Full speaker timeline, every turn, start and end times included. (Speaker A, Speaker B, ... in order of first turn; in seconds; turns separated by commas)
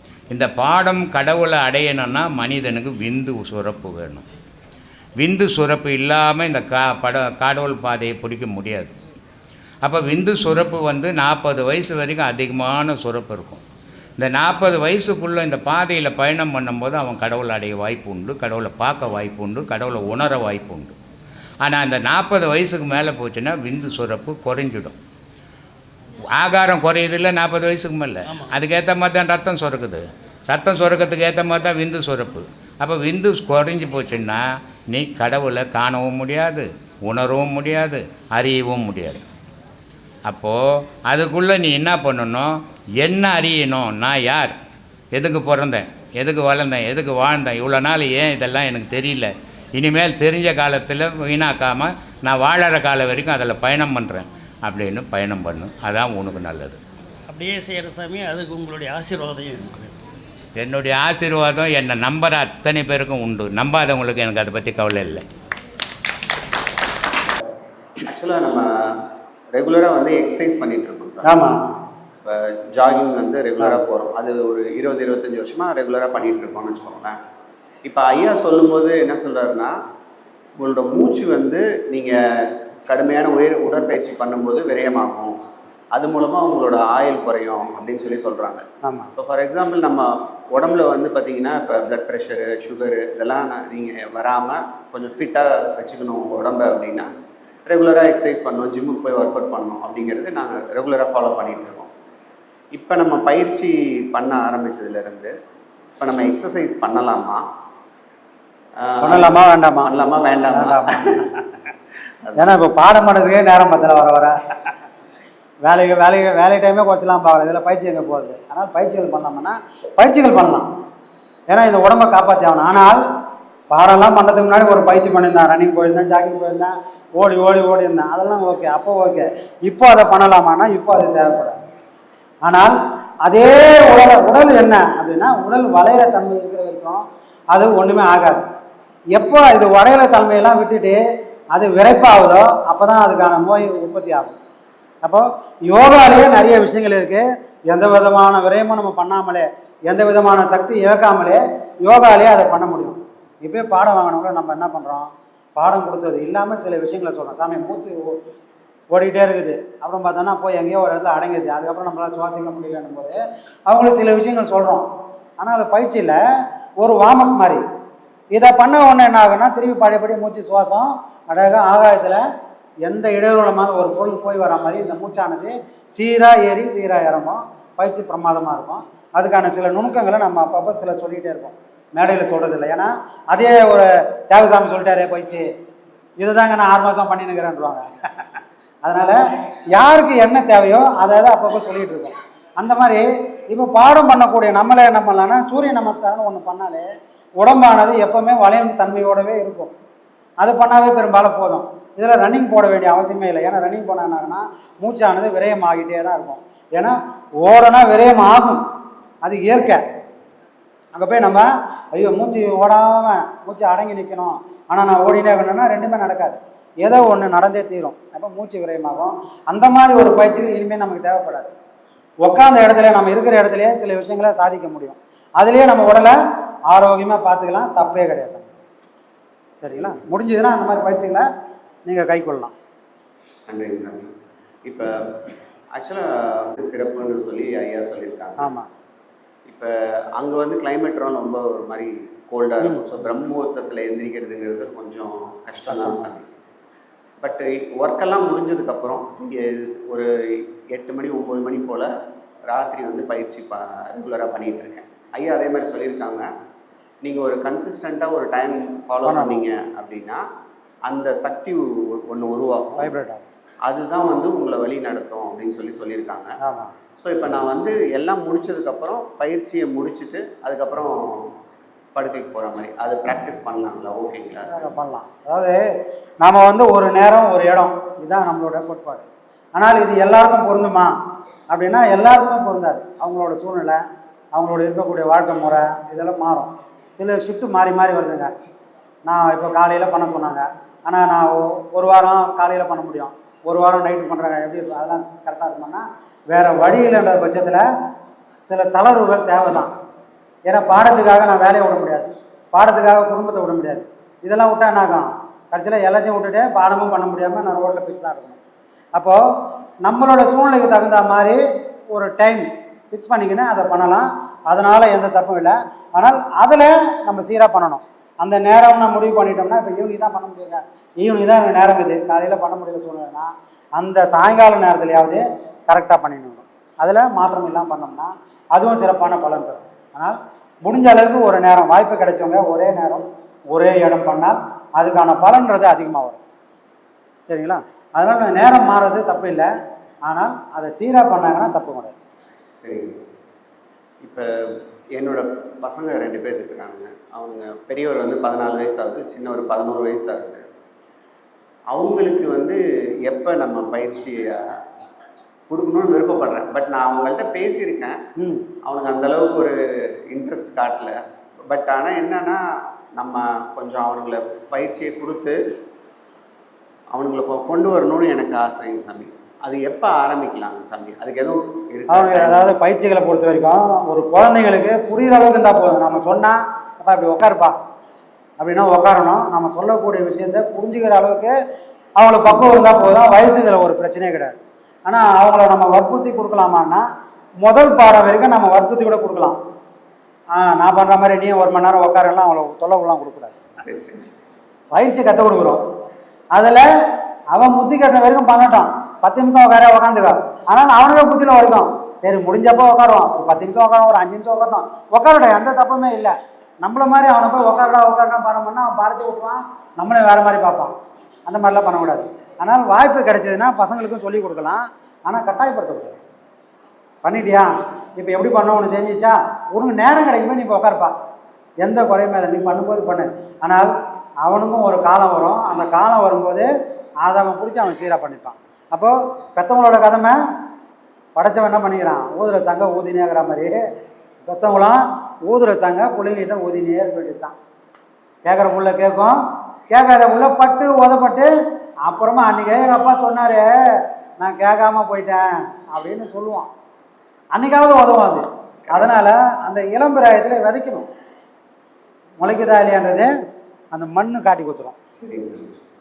Speaker A: 0.3-4.2, Speaker A: 5.2-8.9, Speaker A: 9.8-13.6, Speaker A: 14.2-20.9, Speaker A: 21.6-25.0, Speaker A: 26.3-39.3, Speaker B: 28.2-28.5, Speaker A: 40.3-44.5, Speaker A: 45.1-56.8, Speaker B: 57.3-60.0, Speaker A: 60.5-65.2, Speaker C: 68.1-68.7, Speaker C: 69.5-71.3, Speaker D: 71.2-71.6, Speaker C: 72.2-77.2, Speaker C: 77.8-79.8, Speaker C: 80.6-85.4, Speaker C: 85.9-88.6, Speaker D: 88.8-89.1, Speaker C: 89.2-97.1, Speaker C: 97.7-101.9, Speaker C: 102.7-105.3, Speaker C: 106.0-107.4, Speaker C: 108.8-111.3, Speaker D: 109.0-109.9, Speaker D: 110.5-111.0, Speaker C: 112.2-112.5, Speaker D: 112.4-114.3, Speaker D: 115.6-120.7, Speaker D: 121.5-123.0, Speaker D: 123.7-131.6, Speaker D: 132.4-138.4, Speaker D: 139.2-141.0, Speaker D: 141.5-144.3, Speaker D: 145.0-158.2, Speaker D: 158.9-164.8, Speaker D: 165.4-166.2, Speaker D: 166.8-167.6, Speaker D: 168.3-172.2, Speaker D: 172.8-185.5, Speaker D: 186.2-187.8, Speaker D: 188.8-189.2, Speaker D: 189.7-196.9, Speaker D: 197.4-199.7, Speaker D: 200.4-208.6, Speaker D: 209.2-209.8, Speaker D: 210.9-221.5, Speaker D: 222.2-226.1, Speaker D: 226.7-228.5, Speaker D: 229.6-231.2, Speaker D: 231.8-232.5, Speaker C: 233.5-234.1, Speaker C: 234.6-235.2, Speaker C: 235.7-238.5, Speaker D: 238.4-238.7, Speaker C: 239.5-246.2, Speaker D: 245.7-246.0, Speaker C: 247.2-250.1, Speaker C: 250.7-251.9, Speaker C: 252.5-256.3, Speaker C: 257.0-260.2, Speaker D: 259.1-259.4, Speaker C: 260.8-262.9, Speaker D: 262.8-263.2, Speaker C: 263.6-266.3, Speaker D: 266.4-266.7, Speaker C: 267.0-271.3, Speaker C: 271.9-274.7, Speaker D: 274.5-275.6, Speaker D: 276.2-280.9, Speaker D: 281.5-283.8, Speaker D: 284.3-288.3, Speaker D: 289.1-297.6, Speaker D: 298.4-299.7, Speaker D: 300.4-308.4, Speaker D: 308.9-309.2, Speaker D: 309.8-311.4, Speaker D: 311.9-336.2, Speaker D: 337.3-339.5, Speaker D: 340.1-341.9, Speaker C: 342.5-343.0, Speaker C: 344.0-344.3, Speaker C: 344.9-350.4, Speaker C: 351.7-354.4, Speaker C: 355.5-358.0, Speaker D: 358.2-358.4, Speaker C: 358.6-359.6, Speaker C: 360.1-362.4, Speaker C: 362.9-365.4, Speaker C: 366.9-372.5, Speaker D: 371.9-377.5, Speaker D: 378.4-381.3, Speaker D: 382.0-386.8, Speaker D: 387.4-389.4, Speaker D: 390.3-393.4, Speaker C: 393.6-394.0, Speaker D: 394.7-395.6, Speaker D: 396.3-396.6, Speaker D: 397.3-410.7, Speaker D: 411.2-416.0, Speaker D: 417.0-420.9, Speaker D: 421.6-423.7, Speaker D: 424.2-426.5, Speaker D: 427.0-430.2, Speaker D: 431.1-433.6, Speaker D: 434.2-437.3, Speaker D: 438.2-439.2, Speaker D: 439.7-441.3, Speaker D: 441.9-443.4, Speaker D: 444.2-446.5, Speaker D: 447.3-450.9, Speaker D: 452.2-453.1, Speaker D: 453.7-454.7, Speaker C: 454.9-455.5